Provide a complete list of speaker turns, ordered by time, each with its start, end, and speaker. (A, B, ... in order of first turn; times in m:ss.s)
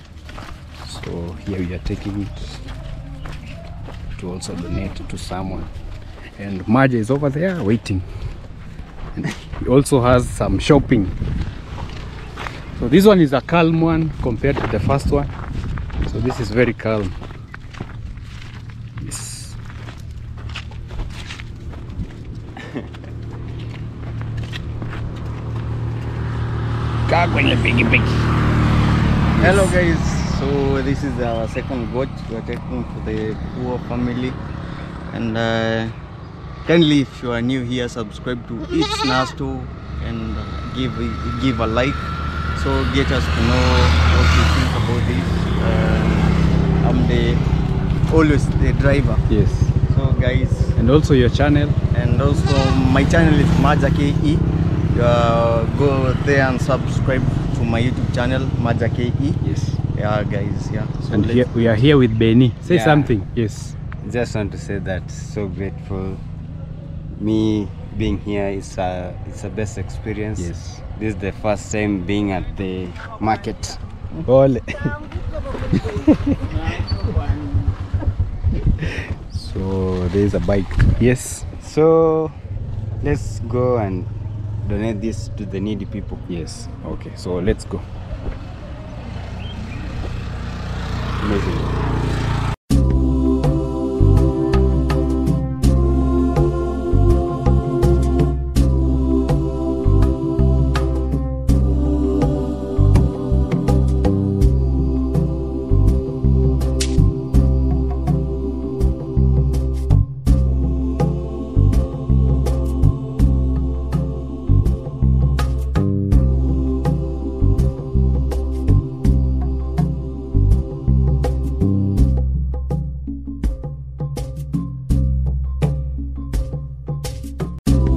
0:00.8-0:02.6 A
0:04.2-0:05.7 A
0:06.4-0:08.1 A
0:09.2-0:11.2 A
0:12.8-0:15.3 A
0:16.0-0:17.2 A
0:19.0-0:19.6 A
0:27.1-0:28.2 A
0:29.3-0:29.8 A
0:29.4-0:34.4 B
0:35.1-0:36.0 B
0:36.6-0:47.5 B
0:48.0-0:49.2 B
0:49.3-0:49.8 A
0:49.8-0:50.8 B
0:50.8-0:51.8 A
0:51.9-1:01.1 B
0:59.4-0:59.8 A
1:01.0-1:03.8 A
1:01.1-1:01.4 C
1:02.6-1:03.1 C
1:04.0-1:06.2 C
1:07.2-1:13.8 C
1:10.4-1:10.8 A
1:14.2-1:15.0 A
1:15.7-1:16.5 A
1:18.8-1:21.5 A
1:21.6-1:22.4 C
1:23.0-1:24.1 C
1:24.6-1:26.3 C
1:26.3-1:27.8 A
1:31.2-1:31.8 C